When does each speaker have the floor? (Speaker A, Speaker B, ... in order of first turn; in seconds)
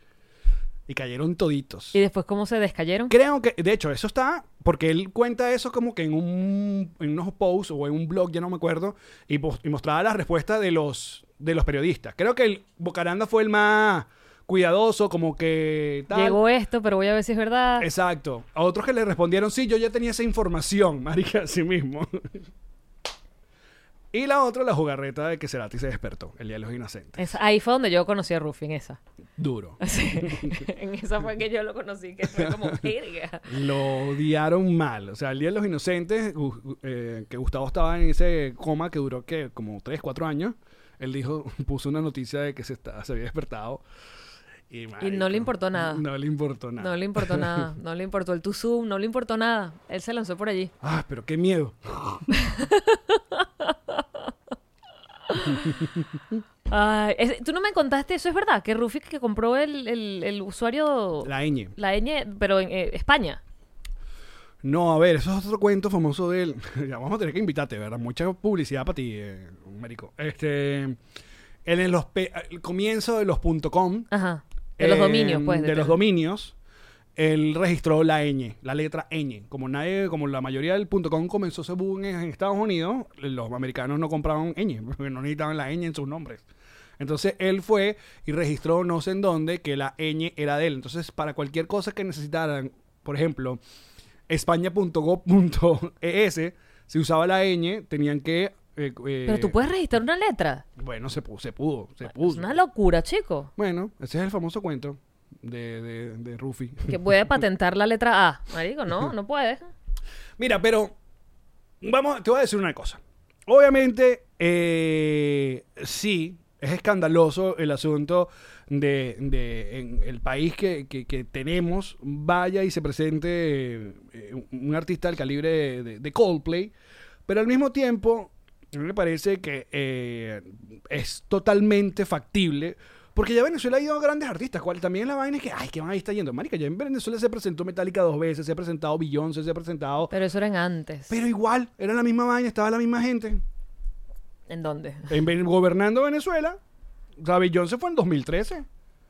Speaker A: 0.9-2.0, 3.1-16.4, 17.8-22.4, 24.1-27.3, 29.4-30.6, 32.3-32.8, 33.5-43.8, 44.7-47.7, 50.8-52.3, 61.2-61.7, 64.6-71.0, 71.6-74.1, 74.8-76.5, 77.2-86.4, 87.0-93.6, 94.3-99.5, 100.8-102.5, 103.6-107.0, 110.4-111.0, 111.8-126.7, 127.3-140.1, 141.1-143.4, 145.1-146.6, 147.2-148.7
Speaker B: 1.9-3.1, 16.1-17.9, 27.2-29.0, 29.8-33.5, 45.0-46.0, 46.8-50.7, 52.3-54.0, 55.3-55.8, 56.7-63.4, 74.1-76.0, 99.2-100.6, 102.1-103.5, 106.9-109.7, 140.1-141.1, 144.5-145.1